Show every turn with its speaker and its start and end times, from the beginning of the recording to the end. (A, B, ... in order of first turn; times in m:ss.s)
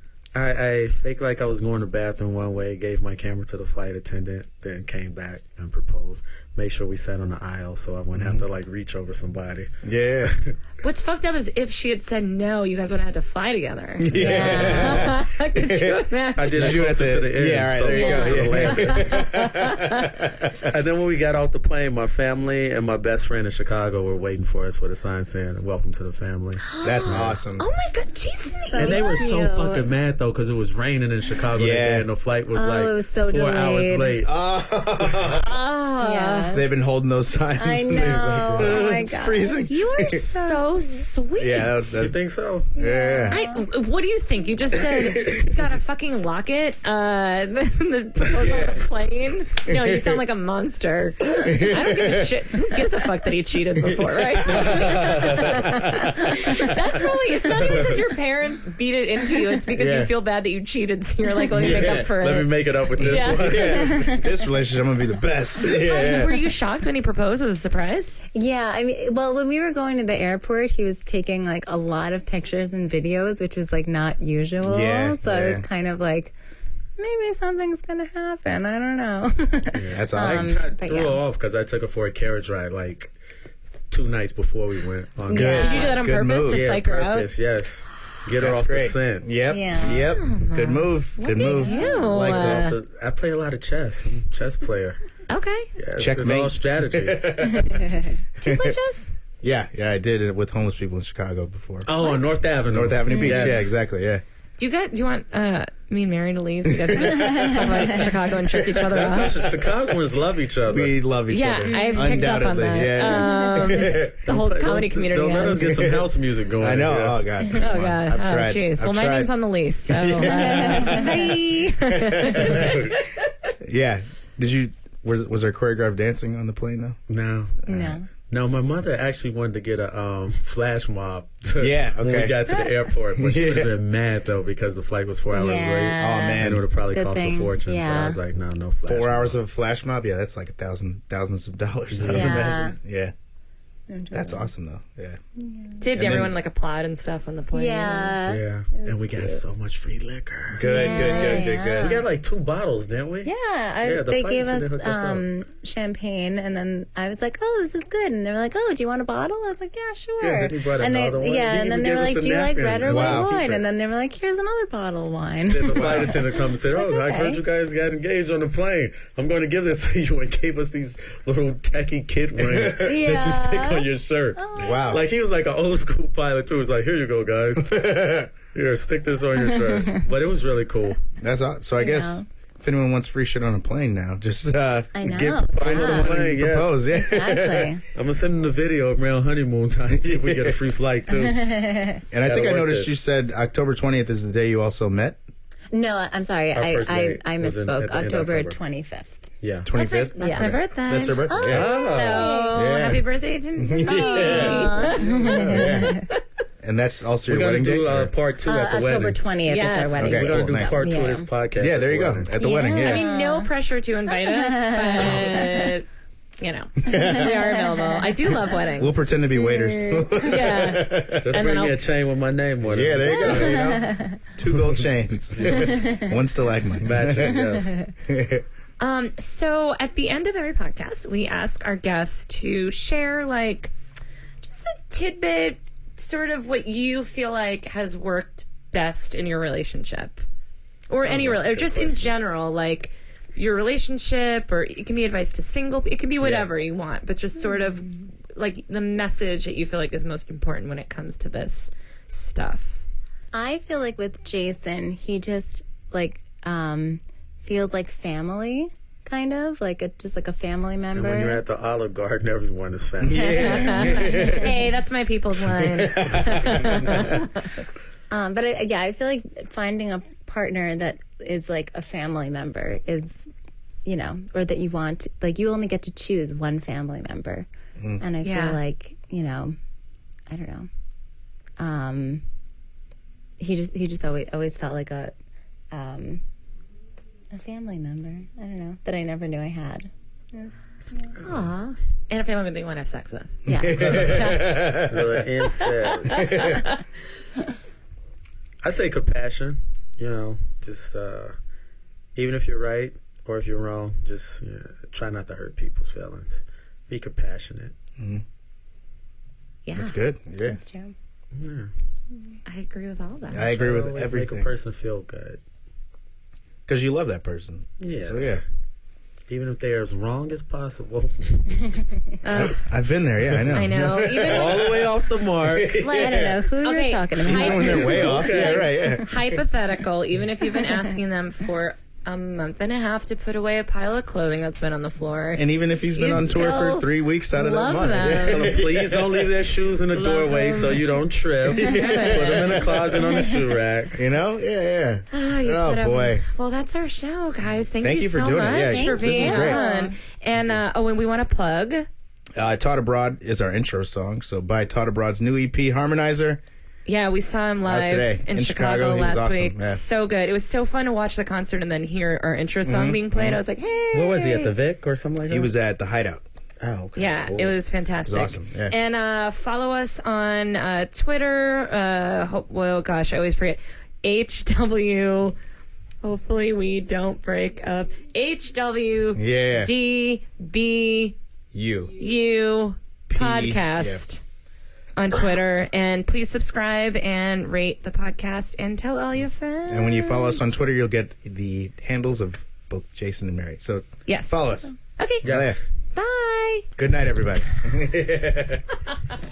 0:00.3-0:09.7 A
0:08.1-0:08.4 B
0:09.8-0:10.3 B
0:10.2-0:10.5 A
0:10.8-0:16.8 C
0:14.0-0:20.7 B
0:14.1-0:15.1 D
0:16.4-0:19.0 A
0:17.9-0:20.2 C
0:20.7-0:27.4 A
0:26.6-0:29.8 C
0:26.8-0:27.6 B
0:28.7-0:29.8 D
0:28.8-0:34.3 A
0:31.5-0:32.1 B
0:32.5-0:34.2 D
0:34.2-0:35.5 B
0:35.4-0:36.6 C
0:36.0-0:36.6 D
0:36.5-0:40.2 B
0:37.6-0:41.0 D
0:37.9-0:39.0 A
0:39.7-0:42.1 C
0:41.4-0:42.2 B
0:41.9-0:42.7 A
0:42.7-0:43.4 B
0:42.7-0:43.6 D
0:43.3-1:03.5 C
0:44.7-0:45.6 B
0:48.4-0:48.8 B
0:49.7-0:50.2 B
0:51.4-0:52.3 B
0:53.8-0:56.5 B
0:54.6-0:55.9 A
0:57.4-0:58.0 A
0:59.7-1:00.1 B
1:01.5-1:02.1 B
1:01.6-1:04.2 A
1:03.0-1:06.5 B
1:03.7-1:04.3 D
1:05.7-1:08.2 C
1:08.3-1:16.3 D
1:14.6-1:15.6 B
1:17.0-1:21.2 D
1:19.7-1:23.1 A
1:19.9-1:20.6 B
1:23.9-1:25.9 A
1:25.3-1:26.0 D
1:25.3-1:26.7 B
1:25.4-1:27.3 C
1:26.4-1:29.3 A
1:28.4-1:32.8 B
1:29.5-1:30.0 D
1:29.8-1:32.8 C
1:31.4-1:32.2 D
1:32.2-1:35.0 A
1:35.3-1:35.7 C
1:35.8-1:37.6 A
1:36.0-1:38.8 B
1:37.6-1:38.1 D
1:38.4-1:39.1 C
1:39.4-1:41.9 B
1:41.8-1:43.8 A
1:42.7-1:44.2 B
1:43.1-1:43.6 D
1:44.6-1:49.4 C
1:46.6-1:49.5 B
1:48.9-1:50.9 A
1:50.7-1:54.2 B
1:51.3-1:55.9 C
1:51.6-1:52.3 D
1:53.0-1:53.5 D
1:54.2-1:57.2 A
1:55.7-1:56.1 B
1:56.6-1:59.3 B
1:57.5-2:03.5 C
1:59.8-2:02.8 B
2:00.2-2:01.2 D
2:02.4-2:03.0 A
2:03.6-2:07.0 B
2:07.1-2:07.6 A
2:07.6-2:08.0 B
2:07.7-2:08.1 D
2:08.3-2:19.4 A
2:11.6-2:12.4 B
2:13.2-2:13.7 B
2:15.3-2:18.2 D
2:16.0-2:16.6 B
2:18.9-2:23.1 B
2:21.9-2:22.6 A
2:22.0-2:22.8 D
2:23.9-2:24.5 D
2:24.1-2:25.2 B
2:25.4-2:25.8 D
2:25.8-2:28.2 C
2:25.9-2:26.3 B
2:27.5-2:29.4 D
2:28.2-2:35.3 A
2:30.5-2:32.0 B
2:30.6-2:32.0 D
2:33.2-2:47.4 D
2:40.2-2:43.6 A
2:42.8-2:43.3 B
2:45.5-2:57.9 A
2:45.7-2:46.2 B
2:52.4-2:53.0 B
2:52.8-2:54.8 D
2:54.6-2:55.0 B
2:57.6-2:58.3 B
2:58.5-3:01.0 A
2:59.7-3:00.0 D
3:01.2-3:07.8 B
3:01.8-3:02.2 D
3:04.9-3:06.2 D
3:05.0-3:06.8 A
3:06.9-3:07.8 D
3:07.9-3:11.5 A
3:09.9-3:10.6 B
3:11.1-3:12.0 D
3:12.1-3:15.2 B
3:12.2-3:13.0 A
3:15.7-3:19.2 D
3:16.5-3:18.6 A
3:19.4-3:19.7 A
3:19.6-3:21.7 B
3:19.7-3:26.2 C
3:20.2-3:20.5 D
3:21.3-3:22.7 D
3:21.5-3:22.4 A
3:22.5-3:23.0 B
3:23.6-3:26.0 B
3:23.8-3:26.1 D
3:26.6-3:28.1 B
3:27.3-3:29.2 A
3:28.4-3:31.3 D
3:29.4-3:30.2 C
3:29.9-3:32.3 A
3:30.0-3:30.9 B
3:31.6-3:33.0 B
3:32.4-3:33.5 D
3:32.7-3:35.8 C
3:34.1-3:35.7 D
3:36.4-3:39.1 C
3:36.8-3:37.3 B
3:36.9-3:38.0 D
3:38.8-3:41.4 B
3:39.3-3:40.4 D
3:40.2-3:41.8 C
3:41.2-3:43.8 A
3:42.6-3:47.5 B
3:43.0-3:44.2 D
3:44.5-3:45.9 A
3:45.5-3:46.1 D
3:46.8-3:47.9 A
3:47.2-3:47.7 D
3:48.1-3:48.4 B
3:48.8-3:53.7 C
3:54.4-4:00.2 C
4:00.9-4:12.8 C
4:01.0-4:02.1 A
4:13.3-4:21.4 D
4:20.9-4:23.9 A
4:23.0-4:24.5 B
4:23.2-4:27.5 C
4:23.4-4:24.8 D
4:25.6-4:27.2 B
4:28.1-4:33.3 D
4:33.8-4:37.5 D
4:38.0-4:39.6 D
4:38.2-4:38.6 C
4:40.3-4:40.7 D
4:41.6-4:42.2 D
4:43.4-4:45.1 D
4:45.7-4:46.2 D
4:47.3-4:51.1 D
4:51.2-4:54.6 C
4:53.4-4:54.2 D
4:53.4-4:55.2 B
4:54.1-4:56.4 A
4:56.1-4:56.8 C
4:56.1-4:56.6 B
4:58.6-5:01.3 A
5:02.2-5:07.7 A
5:08.0-5:08.2 B
5:09.6-5:10.0 C
5:09.7-5:10.6 B
5:10.4-5:10.9 D
5:11.3-5:11.7 A
5:12.4-5:13.5 C
5:13.3-5:14.5 B
5:13.4-5:15.4 A
5:16.7-5:18.4 B
5:17.8-5:18.4 A
5:19.3-5:21.8 A
5:22.2-5:22.7 C
5:22.3-5:26.3 B
5:23.5-5:24.7 C
5:24.2-5:25.9 A
5:25.8-5:38.6 C
5:25.8-5:28.2 D
5:27.2-5:29.4 B
5:27.8-5:28.6 A
5:30.6-5:30.9 D
5:35.3-5:39.0 B
5:38.0-5:44.0 A
5:39.9-5:40.8 C
5:41.5-5:43.0 B
5:41.6-5:42.6 C
5:43.1-5:43.4 D
5:43.9-5:46.2 B
5:45.1-5:51.9 C
5:47.8-5:49.6 B
5:48.5-5:49.9 D
5:52.3-5:56.4 B
5:56.8-6:04.5 C
5:57.6-5:59.8 B
6:02.6-6:03.4 B
6:03.9-6:05.5 A
6:05.3-6:06.2 B
6:06.6-6:07.2 A
6:07.0-6:15.4 C
6:07.3-6:08.7 B
6:16.0-6:21.2 C
6:19.2-6:19.7 B
6:21.5-6:21.9 B
6:22.0-6:24.2 C
6:23.1-6:24.0 B
6:25.0-6:30.5 C
6:29.7-6:35.6 B
6:34.1-6:35.3 C
6:35.2-6:35.7 A
6:35.9-6:36.7 C
6:36.8-6:38.6 B